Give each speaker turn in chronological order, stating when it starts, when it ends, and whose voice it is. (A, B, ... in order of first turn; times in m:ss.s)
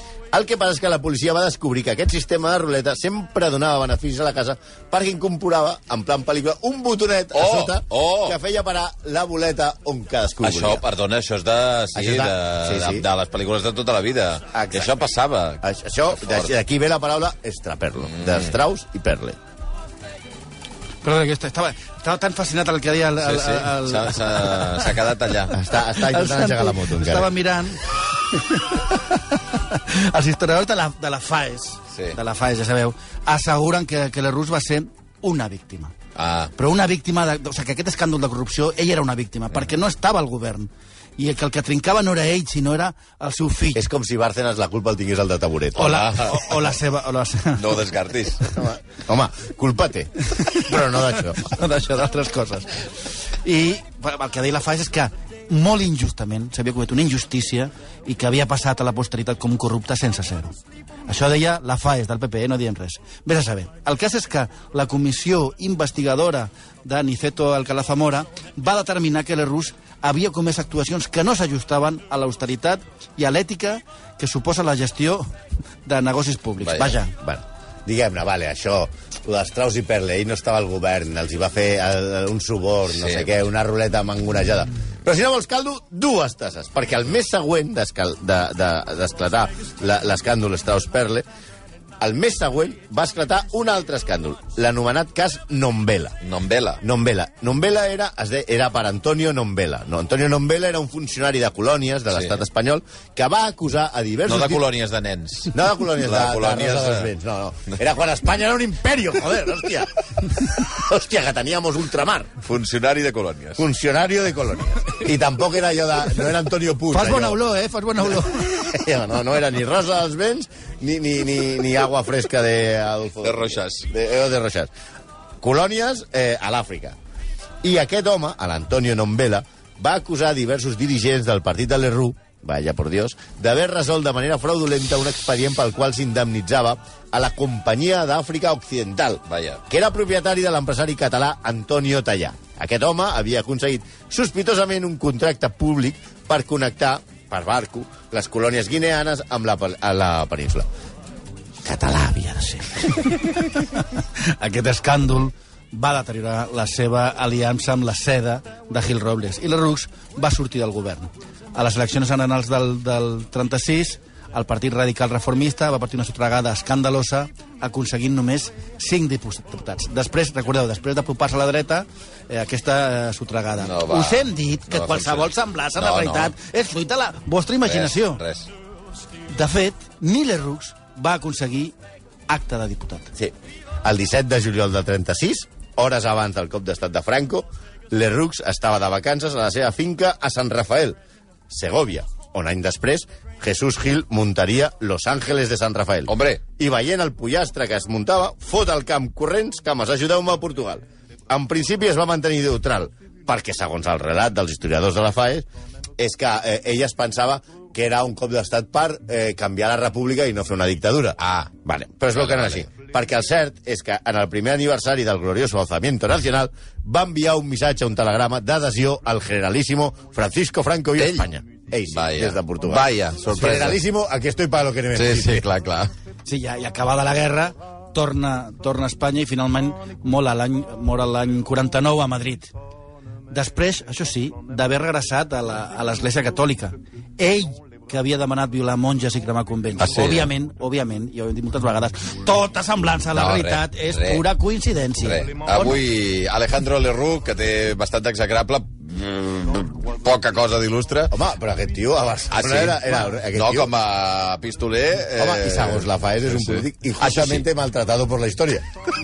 0:00.3-0:10.8 A
0:07.3-0:08.4 B
0:10.4-0:15.6 B
0:12.0-0:13.0 A
0:14.5-0:15.1 A
0:15.6-0:19.4 A
0:16.2-0:16.5 B
0:18.1-0:18.5 B
0:21.0-0:24.9 C
0:23.2-0:25.6 B
0:25.5-0:27.3 A
0:25.9-0:35.9 C
0:36.2-0:36.5 B
0:36.6-0:43.8 C
0:43.7-0:46.1 A
0:45.8-0:47.8 C
0:45.8-0:46.6 B
0:47.6-0:48.5 B
0:48.5-0:51.5 A
0:51.4-0:52.8 C
0:53.4-1:00.6 C
1:01.1-1:15.3 C
1:15.8-1:17.1 C
1:16.6-1:17.0 B
1:17.2-1:31.2 A
1:22.9-1:23.3 B
1:32.0-1:36.2 A
1:36.2-1:36.8 B
1:36.8-1:44.6 A
1:42.1-1:42.4 B
1:44.3-1:47.1 B
1:45.5-1:52.3 A
1:52.4-1:53.6 B
1:53.6-1:57.4 A
1:56.9-1:58.7 C
1:58.5-2:04.7 A
2:03.2-2:03.9 B
2:05.4-2:07.0 A
2:07.6-2:30.7 A
2:19.3-2:19.6 B
2:31.6-2:33.2 A
2:33.5-2:58.2 C
2:53.6-2:56.3 B
2:57.6-2:58.5 B
2:59.3-3:01.8 C
3:02.3-3:03.1 C
3:03.8-3:11.0 A
3:11.5-3:25.5 A
3:16.1-3:16.4 B
3:26.0-3:45.4 A
3:31.2-3:31.5 B
3:32.2-3:32.7 B
3:41.0-3:41.2 B
3:41.9-3:43.8 B
3:45.0-3:45.9 B
3:46.3-3:52.5 C
3:53.3-4:05.8 C
3:59.8-4:00.3 B
4:03.1-4:04.3 B
4:05.0-4:11.2 B
4:11.1-4:13.7 A
4:12.3-4:17.5 B
4:15.2-4:18.7 A